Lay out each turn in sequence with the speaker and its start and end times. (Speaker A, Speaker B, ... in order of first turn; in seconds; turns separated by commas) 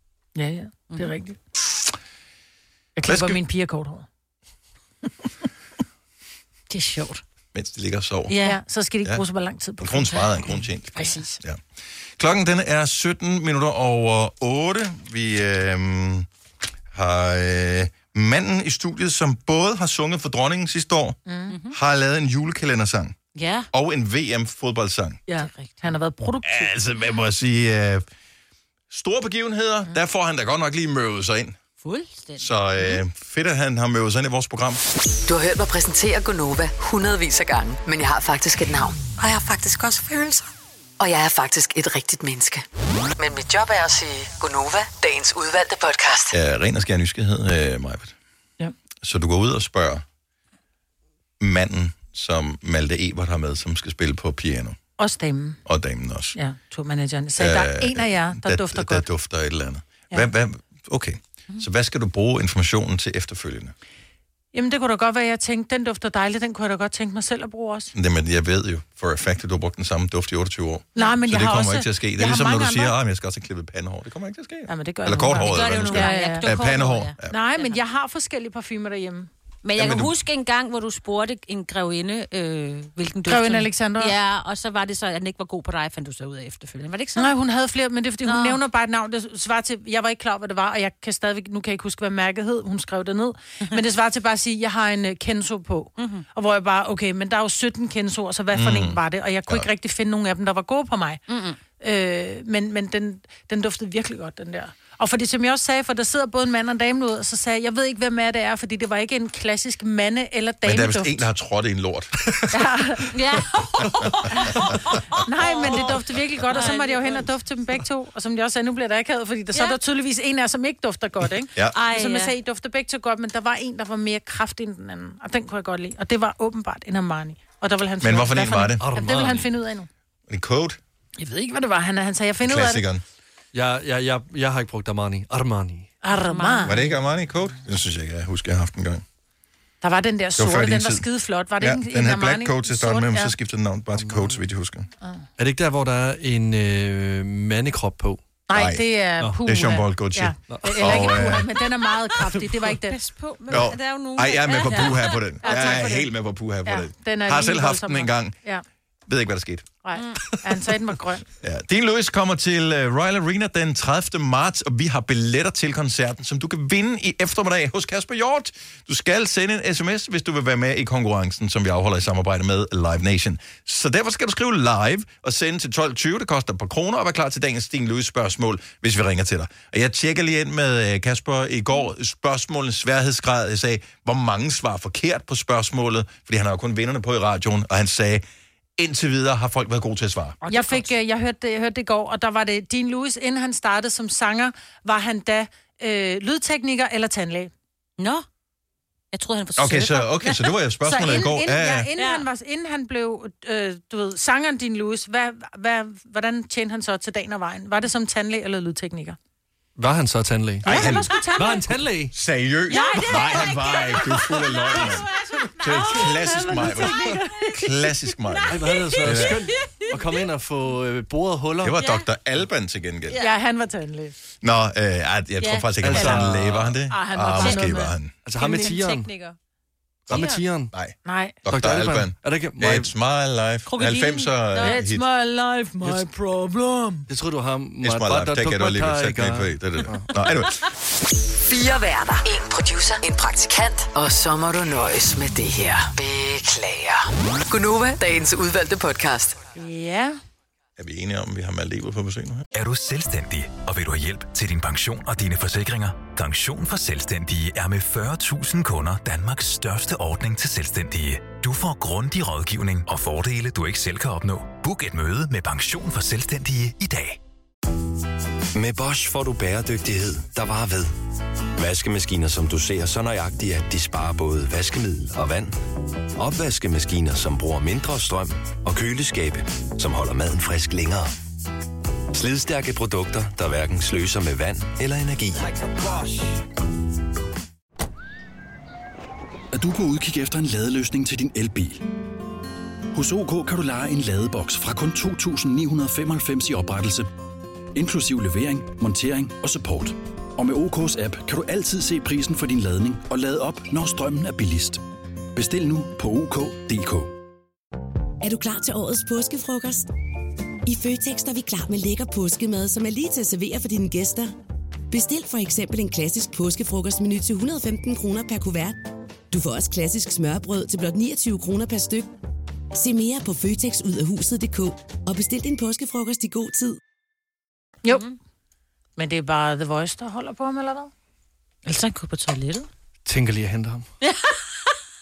Speaker A: 0.3-1.4, Speaker A: 3.0-4.1, Speaker B: 3.1-3.4, Speaker A: 6.7-7.2, Speaker B: 7.5-8.3, Speaker C: 8.3-8.6, Speaker A: 8.4-11.4, Speaker B: 9.8-11.6, Speaker B: 12.2-16.3, Speaker B: 16.9-21.2, Speaker A: 21.3-21.5, Speaker C: 21.5-21.8, Speaker B: 21.7-23.2, Speaker C: 23.4-23.7, Speaker B: 23.7-25.2, Speaker A: 25.3-26.7, Speaker C: 25.4-25.9, Speaker B: 26.4-28.1, Speaker B: 28.9-31.6, Speaker C: 31.8-33.0, Speaker B: 32.4-34.8, Speaker D: 35.2-40.5, Speaker D: 41.0-42.6, Speaker D: 43.2-46.4, Speaker B: 46.3-48.1, Speaker B: 49.0-50.0, Speaker B: 51.4-54.8, Speaker A: 55.0-55.6, Speaker B: 55.7-56.4, Speaker A: 56.4-59.0, Speaker B: 57.4-63.7, Speaker A: 64.5-67.9, Speaker B: 67.9-77.3, Speaker A: 71.0-73.0, Speaker A: 74.7-76.5, Speaker C: 75.3-77.8, Speaker A: 77.3-79.3, Speaker C: 79.6-87.3, Speaker B: 79.8-80.1, Speaker A: 83.3-84.1, Speaker A: 87.2-101.2, Speaker C: 88.2-88.6, Speaker C: 96.0-96.2, Speaker B: 98.5-99.7, Speaker C: 101.3-101.6, Speaker A: 101.8-111.2, Speaker B: 110.7-112.7, Speaker A: 112.5-113.2, Speaker C: 113.1-117.3, Speaker B: 113.8-114.1, Speaker A: 114.3-114.7, Speaker A: 115.2-129.9, Speaker C: 121.7-122.3, Speaker B: 128.0-128.9, Speaker E: 128.8-129.5, Speaker B: 130.3-130.8, Speaker A: 131.2-132.8, Speaker B: 132.4-133.0, Speaker E: 133.5-135.9, Speaker A: 136.0-136.8, Speaker C: 136.3-136.9, Speaker B: 136.7-139.0, Speaker A: 139.8-143.3, Speaker B: 140.4-141.1, Speaker B: 141.6-144.9, Speaker E: 143.9-144.4, Speaker E: 145.4-148.2, Speaker A: 148.5-153.0, Speaker B: 148.5-148.8, Speaker B: 149.4-151.5, Speaker E: 150.5-151.0, Speaker C: 152.6-155.9, Speaker B: 153.5-158.4, Speaker A: 155.4-156.1, Speaker A: 156.7-158.6, Speaker B: 159.1-159.7, Speaker A: 159.8-161.2, Speaker C: 159.9-160.2, Speaker B: 161.4-188.2, Speaker B: 188.8-190.4, Speaker C: 190.4-190.9, Speaker A: 190.5-197.5, Speaker C: 198.0-198.2, Speaker C: 199.1-200.6, Speaker B: 199.6-201.9, Speaker A: 200.8-209.2, Speaker C: 202.0-202.3, Speaker E: 209.8-212.2, Speaker B: 210.6-211.2, Speaker A: 210.7-211.7, Speaker B: 212.1-215.1, Speaker C: 212.7-217.1, Speaker A: 212.7-213.6, Speaker B: 215.6-219.5, Speaker A: 215.6-217.7, Speaker C: 218.3-219.9, Speaker E: 218.5-221.8, Speaker B: 221.6-223.2, Speaker C: 221.8-222.1, Speaker C: 223.1-223.3, Speaker A: 223.2-224.1, Speaker B: 224.4-228.2, Speaker C: 225.4-225.7, Speaker E: 225.8-226.7, Speaker A: 226.0-228.8, Speaker E: 228.2-229.1, Speaker C: 228.4-229.3, Speaker E: 230.1-230.7, Speaker B: 230.1-235.0, Speaker C: 230.1-230.4, Speaker A: 231.1-231.4, Speaker E: 231.5-232.9, Speaker C: 233.7-234.8, Speaker A: 234.6-237.1, Speaker E: 237.1-240.1, Speaker B: 237.8-240.7, Speaker D: 241.4-249.4, Speaker A: 249.6-250.2, Speaker B: 250.8-252.5, Speaker F: 252.5-267.2, Speaker G: 268.6-270.9, Speaker G: 271.6-275.6, Speaker G: 276.2-281.1, Speaker G: 282.1-285.5, Speaker H: 289.5-291.9, Speaker H: 292.9-297.1, Speaker H: 297.8-304.8, Speaker H: 305.3-307.1, Speaker I: 308.2-309.9, Speaker I: 310.7-314.3, Speaker I: 314.9-318.8, Speaker I: 319.3-322.1, Speaker I: 322.7-326.8, Speaker A: 329.0-330.9, Speaker C: 331.6-332.7, Speaker E: 333.1-333.9, Speaker C: 334.0-334.7